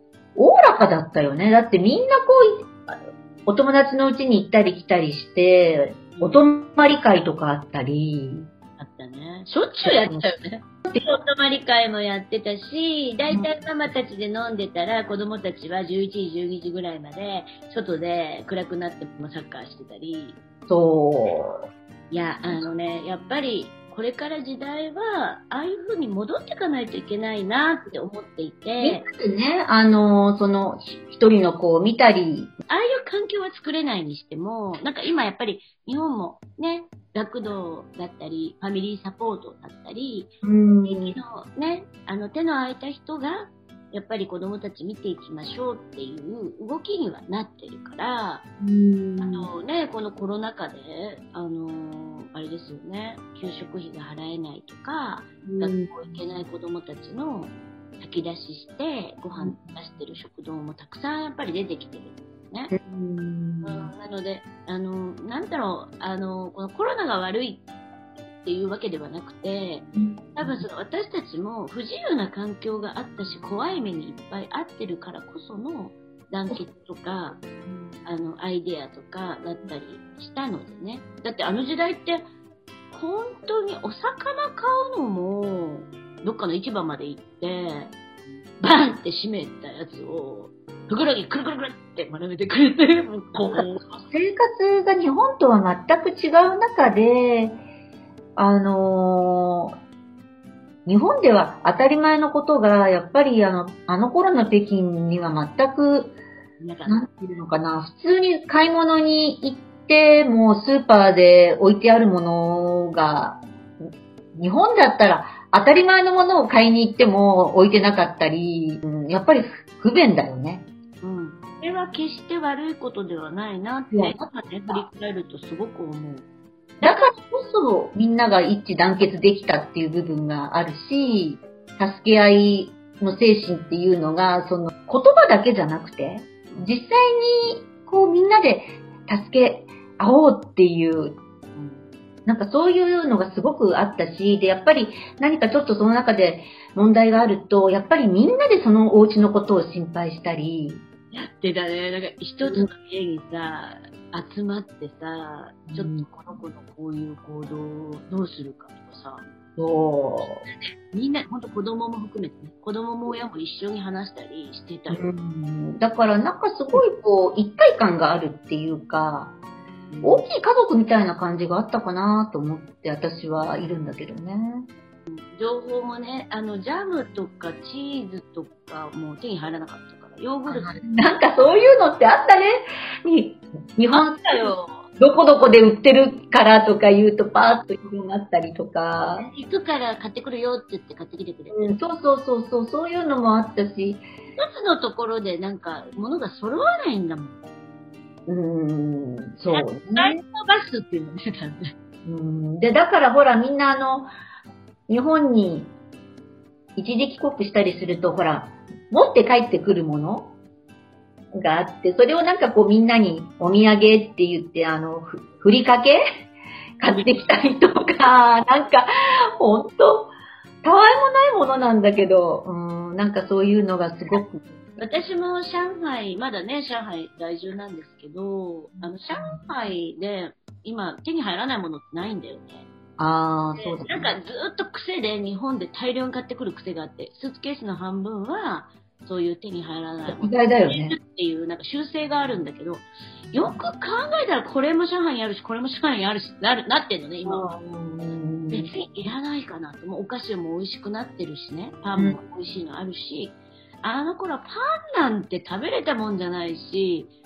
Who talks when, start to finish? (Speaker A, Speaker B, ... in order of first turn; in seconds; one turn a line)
Speaker A: 0.3-8.5
Speaker B: 6.2-6.4
Speaker B: 8.8-20.4
Speaker A: 9.8-10.3
Speaker A: 13.3-13.6
Speaker A: 20.7-21.6
Speaker B: 22.1-29.0
Speaker A: 28.8-32.5
Speaker B: 32.7-40.3
Speaker A: 40.4-41.2
Speaker B: 40.8-48.5
Speaker A: 48.6-49.5
Speaker B: 49.2-62.7
Speaker A: 55.4-56.2
Speaker A: 59.4-59.7
Speaker A: 62.7-63.9
Speaker B: 63.6-67.6
Speaker B: 68.4-77.4
Speaker A: 69.9-70.6
Speaker A: 77.6-78.0
Speaker B: 78.0-82.2
Speaker B: 82.9-88.0
Speaker B: 88.6-94.0
Speaker A: 93.4-97.6
Speaker A: 98.3-99.8
Speaker A: 100.8-106.2
Speaker B: 106.6-107.0
Speaker A: 106.9-120.7
Speaker B: 121.0-126.3
Speaker A: 123.9-124.8
Speaker B: 126.8-127.1
Speaker A: 126.8-141.2
Speaker B: 136.5-136.7
Speaker B: 141.5-141.8
Speaker A: 142.2-150.8
Speaker B: 151.1-159.2
Speaker A: 152.4-152.7
Speaker A: 155.7-156.1
Speaker A: 159.6-160.4
Speaker B: 160.2-165.0
Speaker A: 164.9-169.3
Speaker B: 169.9-170.2
Speaker A: 170.0-174.7
Speaker B: 175.1-180.8
Speaker A: 180.5-189.3
Speaker B: 183.9-184.9
Speaker B: 189.2-191.7
Speaker A: 191.5-194.0
Speaker B: 194.3-197.4
Speaker A: 198.3-200.2
Speaker B: 199.5-201.7
Speaker A: 202.0-204.1
Speaker A: 204.9-205.7
Speaker A: 206.8-210.3
Speaker A: 211.3-216.0
Speaker A: 216.8-224.6
Speaker B: 216.9-217.3
Speaker B: 224.8-232.7
Speaker A: 228.7-229.4
Speaker A: 233.0-234.1
Speaker B: 233.6-247.4
Speaker A: 240.1-241.0
Speaker A: 243.3-243.6
Speaker A: 247.2-248.9
Speaker B: 248.5-257.1